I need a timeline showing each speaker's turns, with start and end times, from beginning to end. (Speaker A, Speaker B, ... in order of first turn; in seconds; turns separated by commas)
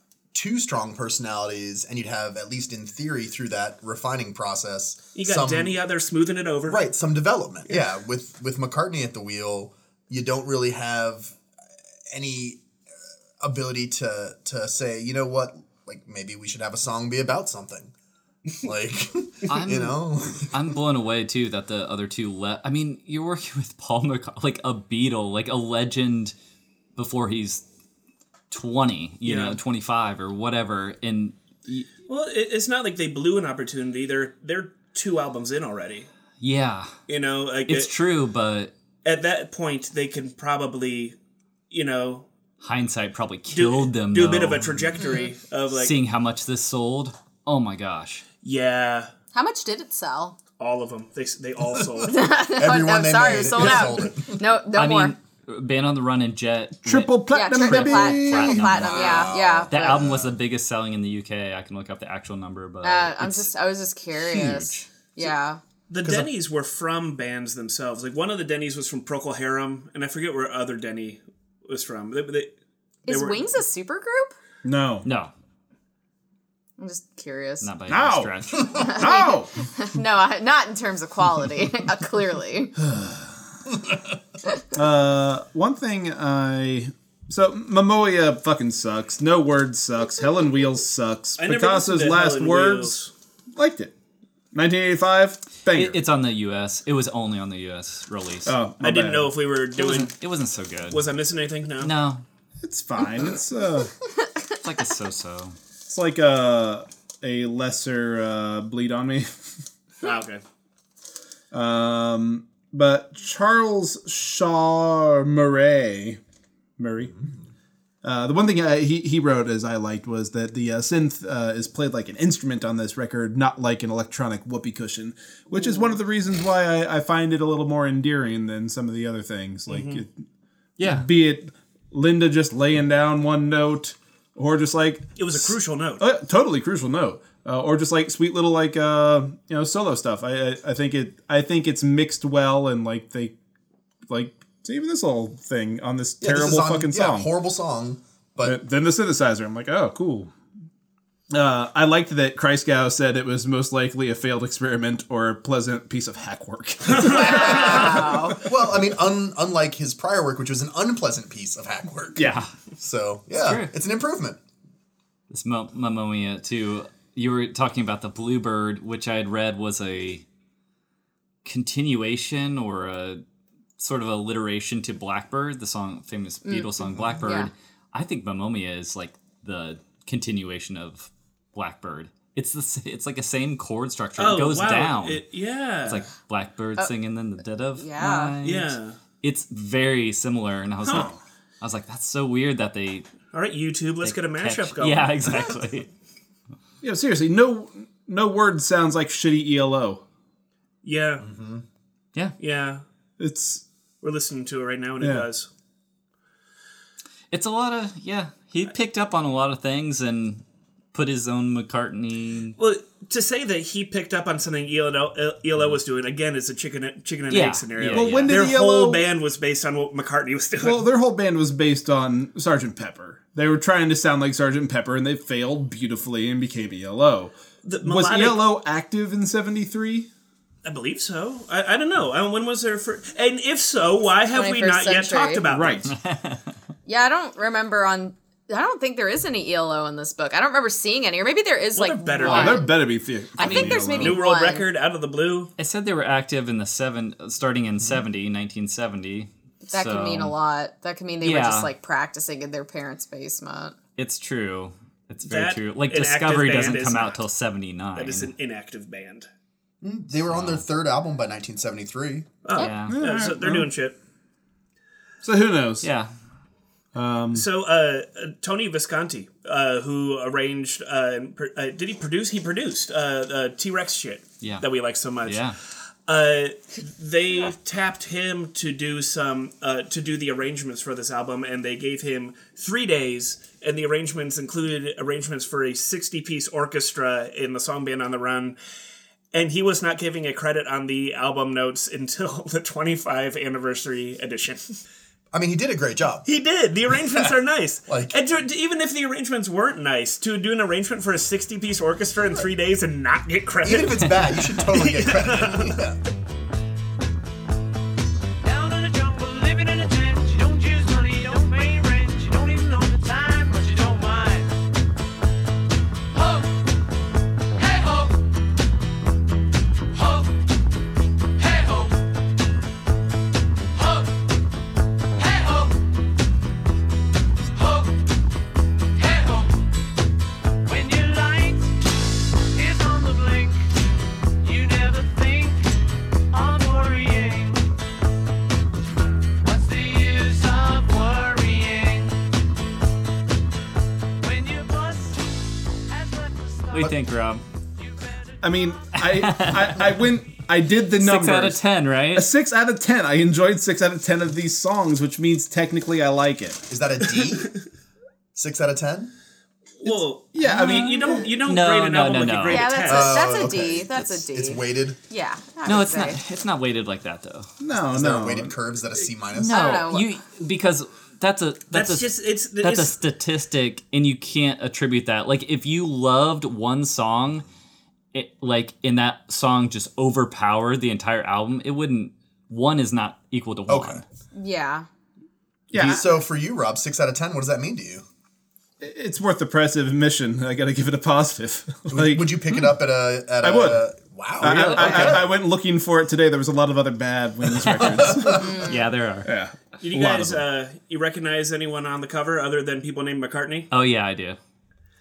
Speaker A: 0.3-5.8, Speaker B: 5.1-6.8, Speaker A: 6.7-11.4, Speaker A: 12.1-12.6, Speaker A: 13.4-17.9, Speaker A: 18.6-20.7, Speaker C: 19.5-26.3, Speaker C: 26.9-27.6, Speaker C: 28.5-31.9, Speaker B: 29.2-29.6, Speaker B: 32.1-36.1, Speaker C: 36.4-36.9, Speaker B: 37.1-37.9, Speaker C: 37.7-38.7, Speaker B: 39.0-41.1, Speaker B: 41.7-42.3, Speaker C: 42.6-45.0, Speaker B: 43.5-45.9, Speaker D: 45.0-45.3, Speaker C: 45.7-48.2, Speaker B: 48.4-49.1, Speaker D: 49.3-50.4, Speaker B: 50.6-52.1, Speaker A: 51.8-54.5, Speaker D: 52.0-55.1, Speaker C: 54.7-63.5, Speaker E: 56.8-58.7, Speaker D: 57.3-60.0, Speaker A: 58.6-60.3, Speaker D: 62.8-65.6, Speaker C: 64.2-64.8, Speaker B: 65.9-72.5, Speaker A: 66.0-66.3, Speaker D: 73.0-74.3, Speaker B: 73.1-73.5, Speaker E: 74.6-75.0, Speaker C: 75.0-75.3, Speaker D: 76.8-77.7, Speaker C: 77.6-78.8, Speaker E: 77.9-79.6, Speaker D: 78.8-82.7, Speaker E: 82.8-83.7, Speaker E: 84.7-93.0, Speaker B: 91.4-93.1, Speaker E: 93.5-93.9, Speaker E: 94.5-96.0, Speaker C: 95.7-98.5, Speaker E: 98.5-99.3, Speaker B: 98.8-100.1, Speaker C: 99.8-101.0, Speaker B: 100.9-101.9, Speaker C: 101.8-102.2, Speaker E: 102.6-103.9, Speaker C: 104.6-105.5, Speaker E: 105.9-109.3, Speaker B: 110.0-110.4, Speaker E: 111.5-116.2, Speaker E: 116.8-117.1, Speaker E: 118.0-130.1, Speaker B: 129.7-130.0, Speaker C: 130.8-131.1, Speaker E: 130.8-143.3, Speaker B: 135.2-136.0, Speaker E: 144.1-147.3, Speaker A: 146.2-148.6, Speaker E: 148.4-150.3, Speaker E: 151.3-158.3, Speaker B: 156.9-157.8, Speaker D: 157.1-158.4, Speaker A: 157.2-164.4, Speaker E: 162.2-162.4, Speaker C: 163.3-163.7, Speaker C: 165.3-170.2, Speaker C: 171.4-173.2, Speaker C: 173.8-185.2, Speaker D: 176.4-177.5, Speaker B: 184.2-186.1, Speaker C: 185.8-193.1, Speaker D: 187.8-188.3, Speaker B: 188.4-189.0, Speaker E: 190.9-191.2, Speaker B: 193.3-195.5, Speaker C: 194.0-195.9, Speaker E: 196.8-200.0, Speaker B: 200.8-201.2, Speaker A: 201.2-201.6, Speaker B: 202.4-202.8, Speaker E: 203.2-203.6, Speaker B: 204.0-205.5, Speaker E: 205.0-205.3, Speaker C: 207.3-212.6, Speaker B: 212.6-220.8, Speaker C: 217.3-218.4, Speaker E: 217.9-219.0, Speaker E: 220.6-230.1, Speaker B: 227.6-228.4, Speaker B: 230.6-235.9, Speaker D: 234.3-235.4, Speaker E: 235.4-235.9, Speaker C: 235.8-236.5, Speaker D: 236.8-242.8, Speaker B: 241.7-242.7, Speaker E: 242.2-244.2, Speaker D: 243.4-244.7, Speaker C: 243.4-244.0, Speaker B: 243.5-245.5, Speaker C: 245.6-250.3, Speaker D: 249.7-253.8, Speaker C: 251.2-251.7, Speaker C: 253.9-258.3, Speaker B: 255.3-257.2, Speaker B: 257.9-259.3, Speaker A: 259.8-262.3, Speaker C: 260.3-260.6, Speaker B: 262.4-264.0, Speaker C: 262.6-263.0, Speaker E: 262.9-263.7, Speaker E: 265.2-265.9, Speaker C: 265.8-266.1, Speaker E: 266.9-267.4, Speaker B: 267.3-275.5, Speaker C: 275.2-275.6, Speaker B: 276.1-288.6, Speaker B: 289.3-294.7, Speaker A: 295.3-296.2, Speaker B: 296.2-305.7, Speaker A: 297.9-298.1, Speaker A: 303.6-306.0, Speaker F: 308.4-314.5, Speaker F: 316.2-316.4, Speaker F: 317.6-318.1, Speaker F: 319.9-320.3, Speaker F: 321.4-321.9, Speaker F: 325.2-325.8, Speaker F: 327.6-327.9, Speaker F: 328.9-329.5, Speaker F: 330.6-331.8, Speaker F: 332.5-333.7, Speaker F: 334.4-335.7, Speaker F: 336.3-337.6, Speaker F: 339.4-342.1, Speaker F: 344.2-347.0, Speaker C: 346.7-347.4, Speaker F: 347.8-348.9, Speaker E: 348.4-351.6, Speaker C: 349.0-350.0, Speaker C: 351.0-352.3, Speaker E: 352.1-356.6, Speaker A: 356.7-357.5, Speaker A: 358.3-359.1, Speaker B: 359.8-363.2, Speaker E: 359.8-361.4, Speaker C: 360.4-362.7, Speaker D: 362.5-366.2, Speaker A: 362.9-365.0, Speaker C: 365.6-367.5, Speaker E: 367.6-368.5, Speaker A: 367.9-369.8, Speaker C: 369.3-372.1, Speaker D: 369.5-370.1, Speaker B: 371.7-372.9, Speaker C: 372.6-377.4, Speaker C: 378.1-384.0, Speaker A: 383.7-384.0, Speaker D: 384.3-384.9, Speaker E: 385.7-386.0, Speaker A: 385.8-388.0, Speaker E: 388.8-392.6, Speaker A: 391.9-395.3, Speaker E: 393.4-393.9, Speaker E: 394.4-398.6, Speaker C: 394.4-395.2, Speaker C: 397.6-399.3, Speaker A: 397.9-398.5, Speaker D: 398.3-398.8, Speaker E: 399.2-400.4, Speaker B: 399.8-403.7, Speaker C: 403.7-404.4